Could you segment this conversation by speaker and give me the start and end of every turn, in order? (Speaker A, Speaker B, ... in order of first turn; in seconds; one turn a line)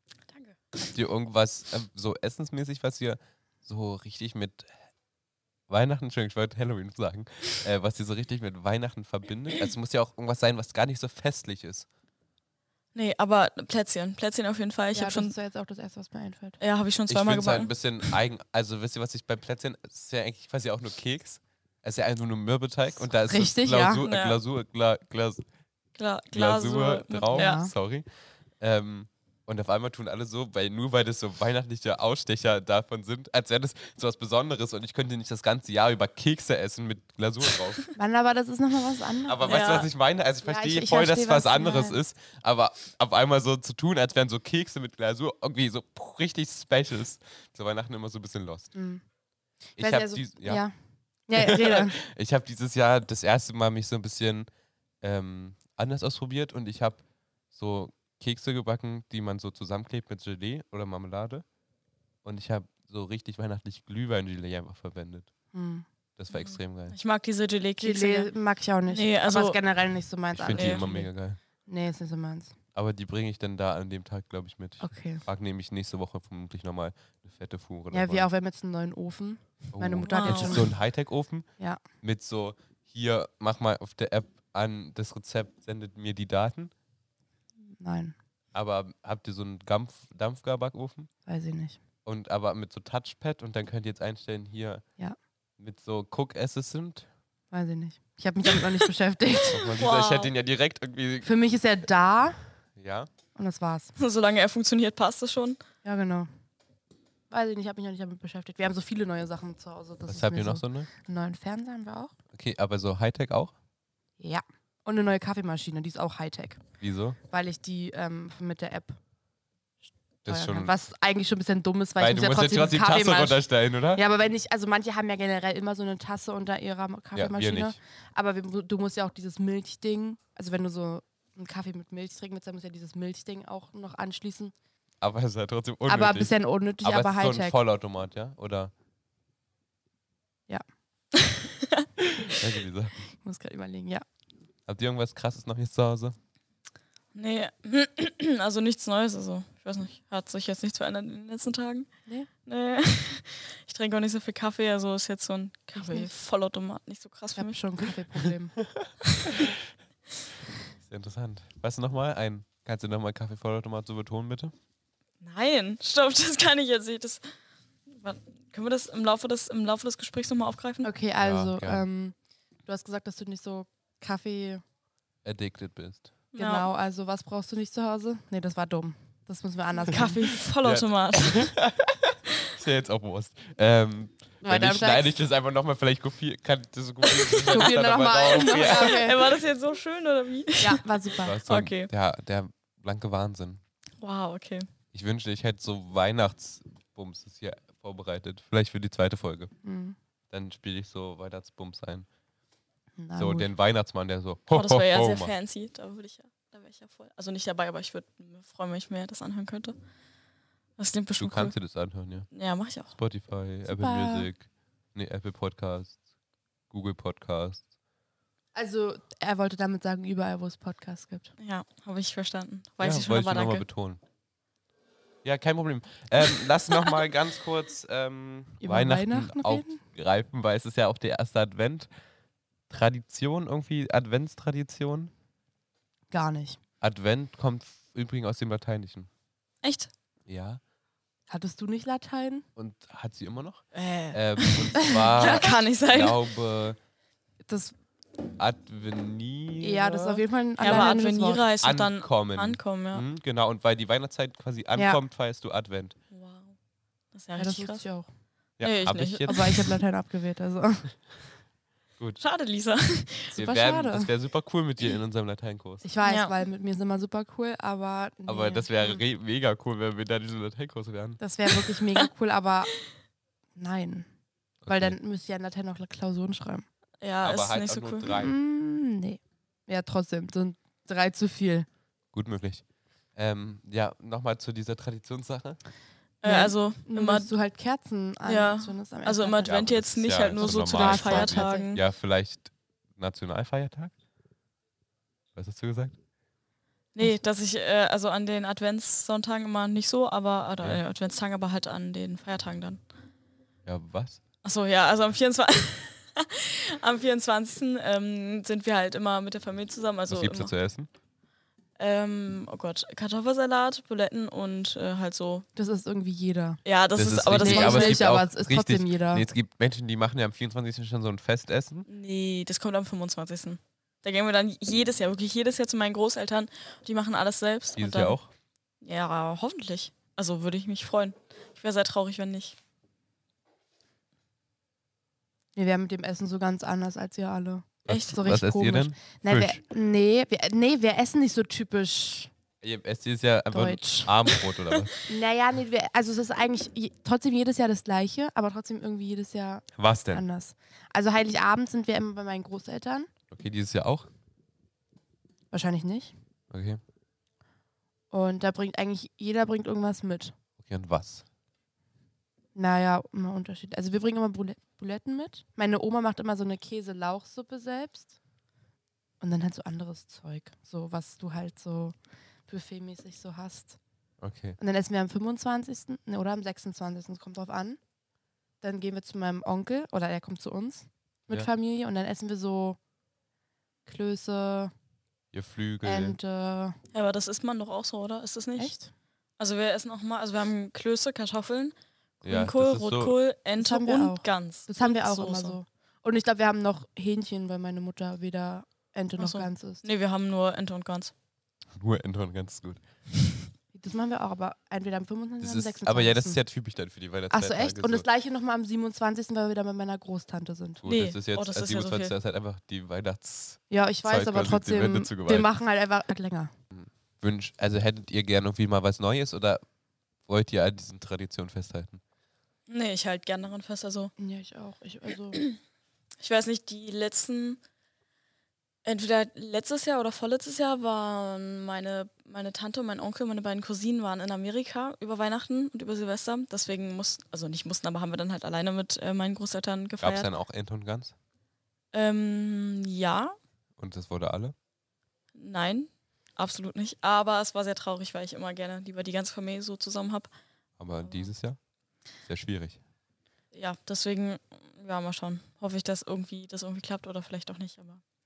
Speaker A: 0.3-0.6
Speaker B: 0.8-4.7
Speaker B: 5.7-11.8
Speaker A: 12.9-15.3
Speaker C: 14.9-16.6
Speaker A: 16.6-18.1
Speaker B: 17.1-25.4
Speaker C: 23.2-24.0
Speaker A: 24.0-24.4
Speaker A: 25.9-27.6
Speaker B: 26.3-28.1
Speaker C: 27.3-27.7
Speaker B: 28.6-37.9
Speaker C: 37.9-39.8
Speaker B: 39.3-48.7
Speaker A: 39.5-39.9
Speaker C: 40.4-42.0
Speaker C: 48.7-49.0
Speaker B: 49.8-50.6
Speaker C: 49.8-50.7
Speaker C: 51.3-52.0
Speaker B: 51.3-54.5
Speaker B: 55.0-61.4
Speaker B: 62.2-65.3
Speaker C: 65.5-65.8
Speaker B: 66.2-67.0
Speaker A: 66.3-68.3
Speaker C: 67.8-71.1
Speaker A: 68.9-69.6
Speaker B: 70.3-71.4
Speaker A: 70.5-70.8
Speaker C: 71.6-72.5
Speaker B: 72.7-78.3
Speaker C: 74.8-75.2
Speaker C: 77.9-80.7
Speaker B: 79.7-81.5
Speaker A: 80.0-80.7
Speaker B: 82.0-86.7
Speaker C: 87.8-88.1
Speaker B: 88.5-91.1
Speaker C: 91.2-91.8
Speaker B: 92.0-94.8
Speaker B: 95.6-97.1
Speaker C: 97.5-99.7
Speaker B: 99.5-101.3
Speaker A: 99.8-100.3
Speaker C: 101.2-102.4
Speaker B: 102.8-103.1
Speaker C: 103.3-103.9
Speaker A: 104.0-105.6
Speaker C: 105.8-106.3
Speaker C: 107.3-112.1
Speaker B: 110.1-110.9
Speaker B: 112.3-113.5
Speaker C: 114.2-116.6
Speaker B: 116.8-117.2
Speaker C: 117.3-119.0
Speaker B: 120.2-120.7
Speaker C: 120.3-134.5
Speaker B: 122.0-124.0
Speaker B: 127.1-127.8
Speaker B: 135.0-138.7
Speaker C: 135.9-137.6
Speaker A: 141.2-141.8
Speaker B: 142.2-143.1
Speaker C: 143.2-144.0
Speaker B: 144.7-146.2
Speaker A: 147.1-151.9
Speaker A: 152.4-157.6
Speaker C: 155.8-156.1
Speaker C: 157.3-158.6
Speaker B: 158.7-159.6
Speaker B: 160.8-164.5
Speaker A: 165.2-167.2
Speaker A: 167.9-170.9
Speaker C: 170.8-172.1
Speaker B: 171.2-171.8
Speaker C: 172.7-174.6
Speaker B: 175.2-176.1
Speaker A: 176.3-176.7
Speaker C: 176.3-180.2
Speaker A: 179.9-181.5
Speaker B: 180.6-189.2
Speaker C: 184.4-185.1
Speaker A: 187.1-187.7
Speaker C: 187.5-189.2
Speaker A: 188.3-190.8
Speaker C: 190.6-191.4
Speaker B: 191.2-193.6
Speaker A: 191.4-191.9
Speaker A: 194.0-194.7
Speaker B: 194.9-199.5
Speaker C: 199.6-199.9
Speaker B: 200.3-202.1
Speaker C: 203.0-203.5
Speaker B: 203.2-205.3
Speaker A: 204.5-209.8
Speaker A: 210.8-211.5
Speaker B: 211.2-212.3
Speaker A: 212.3-212.9
Speaker B: 212.9-216.0
Speaker C: 213.7-214.3
Speaker B: 216.7-217.6
Speaker C: 218.5-221.3
Speaker A: 221.4-223.6
Speaker B: 222.8-224.0
Speaker B: 225.2-231.9
Speaker C: 228.6-229.8
Speaker B: 232.7-235.1
Speaker C: 236.1-236.6
Speaker B: 236.8-239.1
Speaker A: 239.6-239.9
Speaker B: 240.3-240.6
Speaker C: 241.3-242.4
Speaker B: 242.6-246.8
Speaker A: 243.7-246.2
Speaker C: 244.8-245.5
Speaker C: 247.5-247.7
Speaker B: 248.4-250.9
Speaker C: 249.6-251.4
Speaker A: 250.6-253.0
Speaker B: 251.6-255.9
Speaker A: 256.1-256.5
Speaker A: 257.1-257.8
Speaker C: 257.4-258.1
Speaker B: 258.6-259.4
Speaker A: 258.6-259.8
Speaker C: 259.3-260.9
Speaker A: 262.2-263.4
Speaker C: 263.3-264.1
Speaker B: 263.4-265.8
Speaker C: 265.8-269.0
Speaker A: 266.0-266.4
Speaker B: 268.3-271.2
Speaker C: 271.2-272.7
Speaker C: 273.6-274.1
Speaker B: 274.6-274.9
Speaker C: 274.7-276.6
Speaker A: 277.0-278.1
Speaker B: 277.2-278.3
Speaker C: 278.1-281.7
Speaker B: 282.1-282.6
Speaker B: 283.1-285.6
Speaker A: 286.2-287.3
Speaker C: 286.2-289.6
Speaker A: 288.2-291.8
Speaker B: 289.4-293.9
Speaker C: 290.4-291.7
Speaker B: 295.4-296.0
Speaker A: 296.9-302.8
Speaker B: 303.6-304.2
Speaker A: 304.4-310.5
Speaker B: 310.1-310.9
Speaker A: 311.8-315.4
Speaker C: 315.6-316.6
Speaker A: 316.6-318.1
Speaker B: 316.9-321.9
Speaker C: 317.4-319.2
Speaker A: 321.9-328.2
Speaker B: 327.8-328.3
Speaker A: 328.8-332.6
Speaker C: 335.6-342.3
Speaker B: 337.9-339.6
Speaker A: 337.9-338.2
Speaker B: 342.6-344.9
Speaker C: 343.5-344.1
Speaker C: 345.1-353.1
Speaker B: 349.8-350.2
Speaker B: 353.3-354.1
Speaker C: 355.5-356.1
Speaker B: 356.5-356.8
Speaker C: 358.1-360.3
Speaker B: 360.6-361.2
Speaker C: 362.5-368.1
Speaker C: 369.2-371.9
Speaker C: 372.5-373.8
Speaker B: 374.2-374.6
Speaker C: 374.6-377.8
Speaker C: 378.6-382.8
Speaker C: 383.9-384.7
Speaker B: 385.3-386.2
Speaker C: 385.8-386.8
Speaker A: 386.9-388.7
Speaker C: 388.6-388.9
Speaker A: 389.4-395.6
Speaker B: 392.2-393.1
Speaker C: 393.6-399.8
Speaker A: 399.2-401.1
Speaker B: 401.7-402.8
Speaker C: 403.7-406.4
Speaker B: 405.4-408.0
Speaker C: 407.3-410.8
Speaker B: 410.8-415.5
Speaker A: 410.9-412.1
Speaker C: 413.7-416.5
Speaker B: 416.7-419.6
Speaker B: 420.2-422.0
Speaker A: 422.7-424.1
Speaker C: 424.2-425.4
Speaker A: 425.3-425.6
Speaker A: 426.2-427.6
Speaker A: 428.8-440.3
Speaker B: 440.0-441.1
Speaker A: 441.9-443.4
Speaker B: 443.8-444.5
Speaker A: 445.3-450.3
Speaker B: 450.8-451.6
Speaker A: 451.0-451.3
Speaker B: 452.2-452.8
Speaker A: 453.5-458.0